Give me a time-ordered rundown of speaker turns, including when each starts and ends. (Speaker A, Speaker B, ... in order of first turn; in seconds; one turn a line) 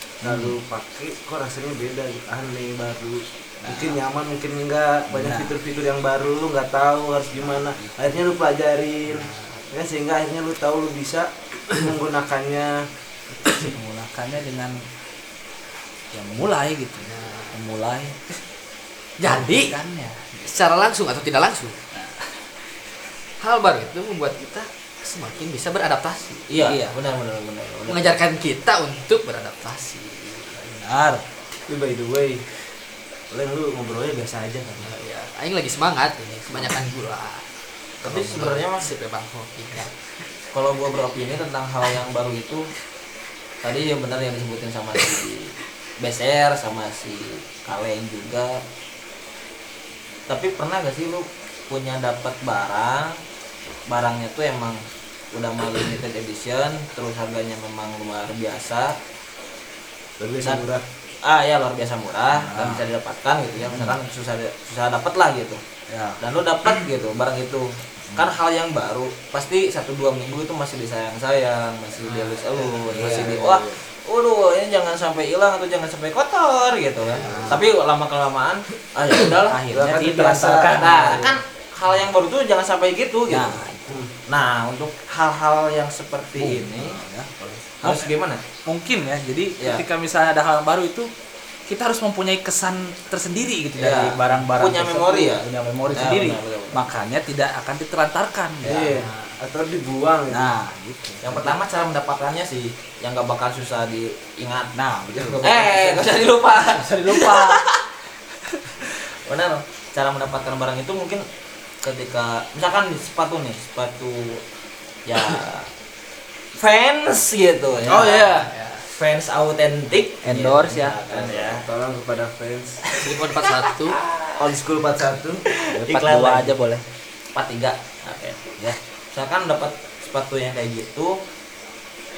Speaker A: 0.2-0.6
Speaker B: 0.2-12.8
Speaker A: 3.6-4.0
Speaker A: 5.1-5.6
Speaker C: 9.1-9.6
Speaker A: 13.6-14.8
Speaker A: 16.1-18.4
Speaker C: 17.1-17.6
Speaker C: 19.2-19.8
Speaker A: 19.2-20.5
Speaker C: 20.4-21.8
Speaker A: 21.9-22.3
Speaker C: 23.4-26.5
Speaker D: 26.5-28.1
Speaker A: 26.6-26.9
Speaker C: 27.9-30.8
Speaker A: 30.8-31.2
Speaker B: 31.7-32.4
Speaker B: 33.3-34.9
Speaker C: 34.8-37.4
Speaker D: 38.0-38.9
Speaker C: 38.0-39.9
Speaker D: 40.5-42.7
Speaker D: 43.6-48.6
Speaker D: 50.3-53.2
Speaker D: 53.9-59.0
Speaker B: 60.2-60.8
Speaker D: 61.2-65.6
Speaker A: 62.3-62.8
Speaker A: 63.6-64.0
Speaker A: 65.9-66.2
Speaker D: 66.2-79.6
Speaker C: 72.0-73.1
Speaker A: 72.9-73.6
Speaker B: 73.0-73.6
Speaker C: 77.1-77.6
Speaker B: 77.2-77.6
Speaker A: 79.3-81.3
Speaker B: 79.7-81.3
Speaker D: 80.7-83.6
Speaker A: 83.3-84.0
Speaker D: 84.3-87.0
Speaker A: 86.3-88.1
Speaker D: 87.8-88.4
Speaker A: 88.7-91.1
Speaker A: 91.7-99.1
Speaker D: 93.8-96.9
Speaker B: 98.6-100.5
Speaker A: 100.3-101.6
Speaker D: 101.2-104.7
Speaker A: 104.7-107.6
Speaker B: 105.1-105.4
Speaker D: 105.4-107.8
Speaker D: 109.2-111.2
Speaker D: 111.8-114.4
Speaker D: 115.0-115.7
Speaker D: 116.5-121.6
Speaker C: 117.9-118.8
Speaker A: 120.2-121.0
Speaker B: 121.1-122.9
Speaker C: 123.0-124.0
Speaker D: 124.0-124.3
Speaker B: 124.4-125.4
Speaker A: 125.5-126.8
Speaker D: 125.7-126.5
Speaker D: 127.3-128.4
Speaker D: 129.1-131.2